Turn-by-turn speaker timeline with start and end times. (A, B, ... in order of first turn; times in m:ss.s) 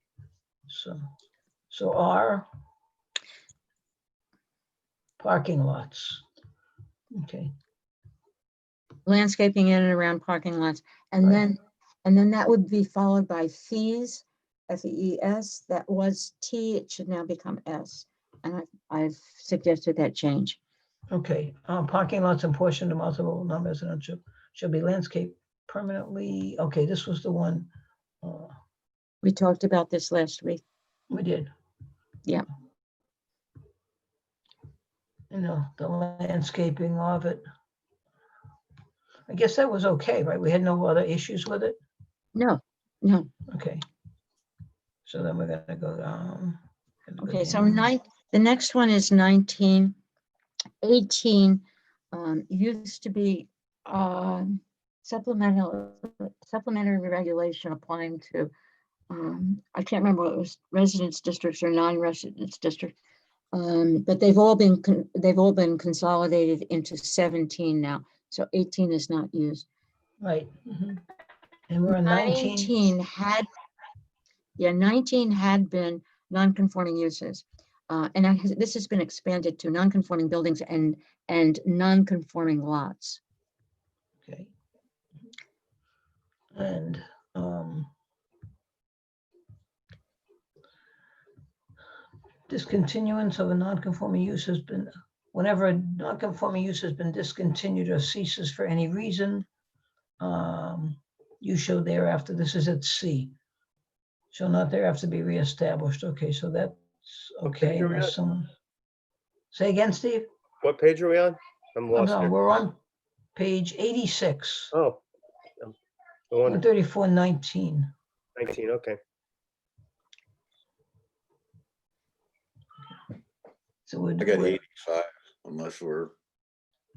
0:00.7-0:01.0 A
0:01.7-0:02.5 A
0:05.2-0:06.2 A
0:07.1-0:07.5 A
0:09.0-0:20.6 B
0:21.1-0:27.7 A
0:28.2-0:28.5 A
0:29.2-0:30.6 B
0:31.1-0:31.5 A
0:35.3-0:37.4 A
0:39.3-0:41.8 A
0:42.4-0:43.3 B
0:43.5-0:43.8 A
0:45.0-0:47.9 A
0:47.2-0:49.9 B
0:50.8-0:58.5 B
0:59.1-1:02.9 B
1:03.5-1:09.6 B
1:10.2-1:11.0 A
1:11.7-1:12.9 A
1:11.9-1:13.4 B
1:14.6-1:23.2 B
1:24.2-1:24.5 A
1:26.5-1:27.9 A
1:32.5-1:39.5 A
1:40.2-1:43.3 A
1:44.3-1:48.5 A
1:47.4-1:48.1 C
1:49.5-1:50.3 A
1:50.6-1:52.3 C
1:51.9-1:52.8 A
1:53.3-1:54.7 A
1:54.7-1:55.0 C
1:56.3-1:56.6 C
1:56.4-1:57.9 A
1:58.4-1:59.0 C
2:03.8-2:04.6 A
2:04.2-2:06.1 D